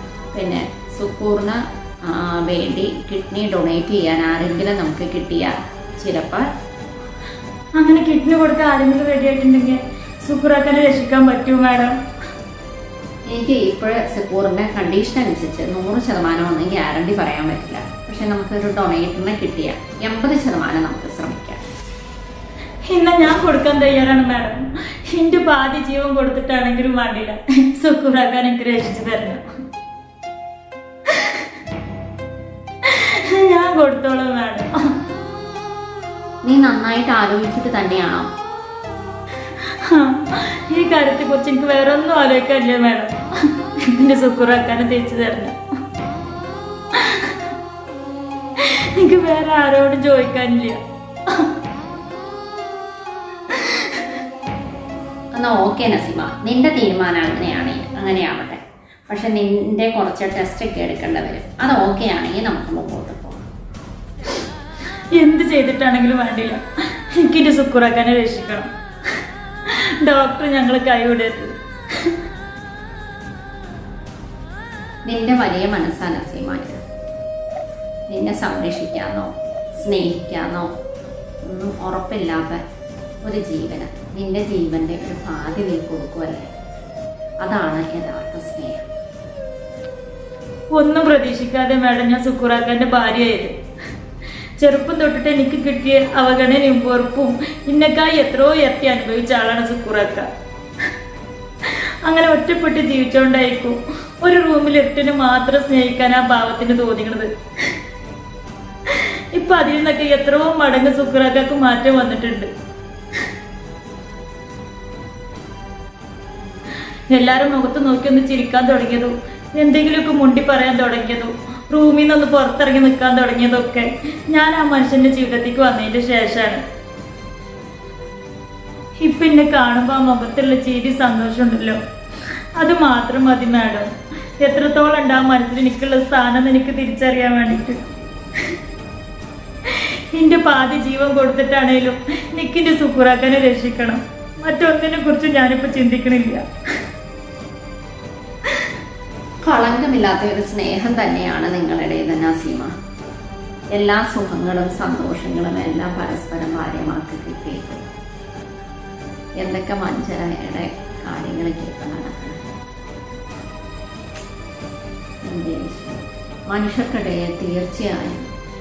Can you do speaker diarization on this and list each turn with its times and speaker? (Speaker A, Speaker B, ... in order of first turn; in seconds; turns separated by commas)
Speaker A: 0.3-6.5, Speaker B: 7.8-12.0, Speaker A: 13.3-21.6, Speaker B: 22.9-29.4, Speaker B: 31.1-31.5, Speaker B: 32.8-34.7, Speaker A: 36.4-38.3, Speaker B: 39.6-45.5, Speaker B: 47.0-47.4, Speaker B: 48.6-50.8, Speaker B: 53.5-54.0, Speaker A: 55.3-63.4, Speaker B: 65.1-68.7, Speaker B: 69.7-72.1, Speaker A: 75.0-76.8, Speaker A: 78.1-80.7, Speaker A: 81.4-82.6, Speaker A: 83.2-86.5, Speaker A: 87.4-88.8, Speaker B: 90.7-93.5, Speaker B: 94.6-100.3, Speaker B: 101.6-107.3, Speaker B: 108.9-112.5, Speaker B: 117.1-126.6, Speaker B: 129.0-131.8, Speaker B: 132.6-133.9, Speaker B: 134.4-137.8, Speaker B: 139.7-146.4, Speaker A: 149.4-152.7, Speaker A: 153.7-157.8, Speaker A: 159.4-162.4, Speaker A: 165.2-168.2